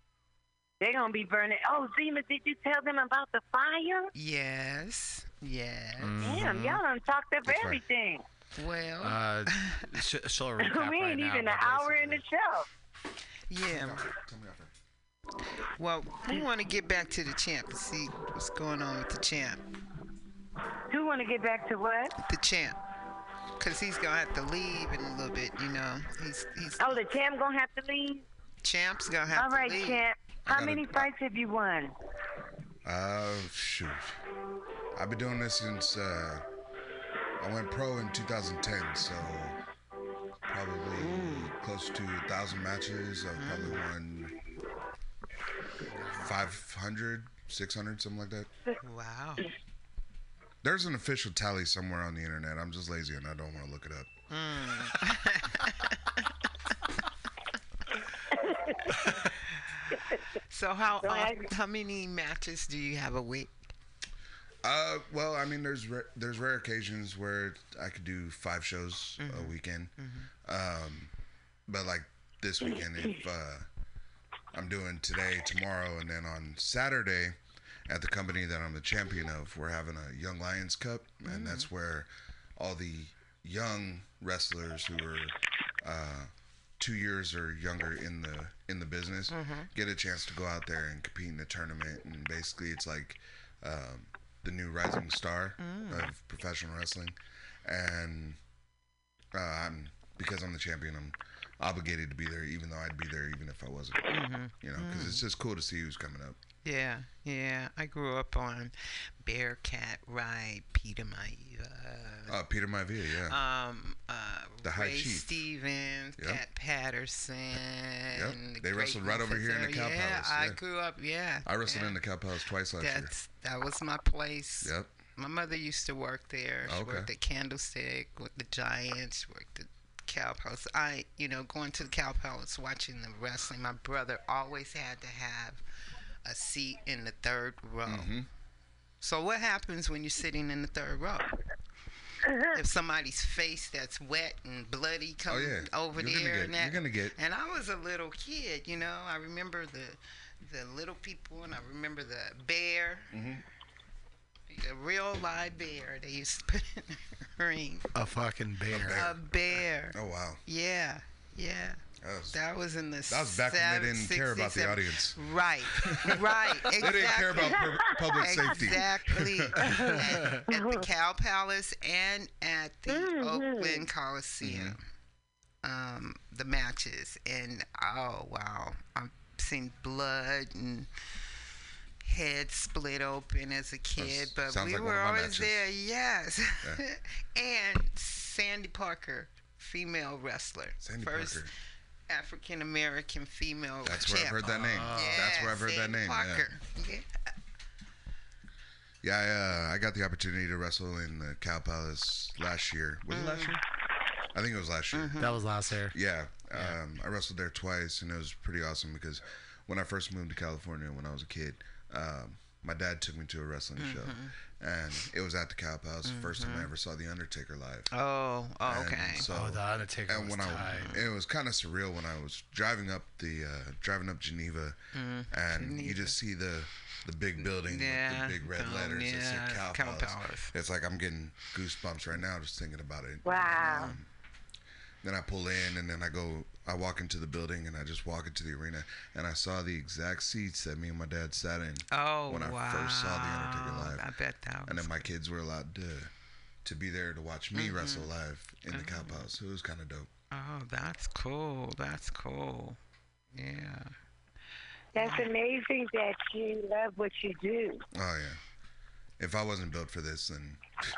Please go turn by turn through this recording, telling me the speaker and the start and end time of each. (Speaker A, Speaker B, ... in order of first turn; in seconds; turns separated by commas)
Speaker A: 0.8-4.1, Speaker B: 4.1-6.3, Speaker C: 6.0-6.8, Speaker A: 6.2-8.2, Speaker D: 7.5-7.8, Speaker B: 8.6-9.8, Speaker C: 9.0-12.2, Speaker A: 10.6-12.7, Speaker B: 13.5-14.0, Speaker D: 13.7-14.7, Speaker B: 15.8-19.6, Speaker A: 20.9-22.1, Speaker B: 22.2-22.8, Speaker B: 23.6-27.0, Speaker A: 26.8-28.2, Speaker B: 28.6-30.0, Speaker A: 29.3-31.9, Speaker D: 30.4-31.1, Speaker D: 32.8-34.2, Speaker D: 34.9-36.4, Speaker D: 37.4-39.6, Speaker D: 40.5-44.3, Speaker A: 41.0-41.5, Speaker B: 43.4-43.8, Speaker D: 46.1-48.5, Speaker B: 48.8-49.4, Speaker D: 50.6-54.1, Speaker B: 54.3-56.0, Speaker A: 58.4-58.7, Speaker B: 60.5-63.6, Speaker A: 61.0-61.5, Speaker D: 64.6-71.1, Speaker B: 69.2-70.3, Speaker D: 71.7-73.7, Speaker D: 74.5-98.4, Speaker B: 81.2-81.7, Speaker B: 89.3-89.7, Speaker B: 95.6-96.1, Speaker D: 99.3-106.4, Speaker B: 104.1-105.2, Speaker B: 106.6-112.3, Speaker D: 112.3-113.4, Speaker B: 113.2-121.9, Speaker D: 114.6-115.3, Speaker D: 118.1-120.6, Speaker D: 121.4-123.1, Speaker B: 122.8-135.6, Speaker D: 124.6-124.9, Speaker D: 126.7-127.1, Speaker B: 136.2-138.1, Speaker D: 137.8-138.3, Speaker B: 139.0-141.3, Speaker B: 142.5-153.1, Speaker D: 145.3-147.2, Speaker D: 153.1-153.4, Speaker B: 154.5-157.8, Speaker C: 157.9-159.1, Speaker D: 158.7-159.3, Speaker B: 159.0-159.9, Speaker D: 159.9-160.4, Speaker B: 160.5-174.8, Speaker D: 162.0-162.4, Speaker D: 163.1-169.6, Speaker A: 169.6-169.9, Speaker C: 170.1-170.4, Speaker A: 170.5-170.8, Speaker A: 172.9-173.8, Speaker D: 174.4-174.8, Speaker B: 175.6-180.9, Speaker B: 182.0-191.5, Speaker D: 184.0-185.7, Speaker D: 190.8-191.5, Speaker B: 192.1-197.2, Speaker D: 193.8-196.5, Speaker C: 194.4-195.4, Speaker D: 199.0-203.6, Speaker B: 203.1-203.6, Speaker D: 204.3-205.2, Speaker B: 204.9-205.4, Speaker C: 205.2-205.9, Speaker D: 205.9-217.9, Speaker B: 213.8-214.3, Speaker B: 216.1-216.7, Speaker B: 217.9-219.3, Speaker D: 218.6-224.8, Speaker C: 219.2-221.0, Speaker B: 220.6-221.0, Speaker B: 224.9-226.1, Speaker D: 225.3-234.1, Speaker B: 227.4-230.5, Speaker A: 233.2-233.9, Speaker B: 233.4-233.9, Speaker D: 235.0-244.1, Speaker B: 241.9-244.9, Speaker D: 244.7-246.1, Speaker D: 246.6-250.1, Speaker B: 247.5-248.1, Speaker B: 248.7-249.2, Speaker B: 250.3-252.8, Speaker B: 253.3-253.9, Speaker A: 254.9-257.8, Speaker B: 254.9-255.3, Speaker D: 257.9-258.4, Speaker D: 259.2-260.6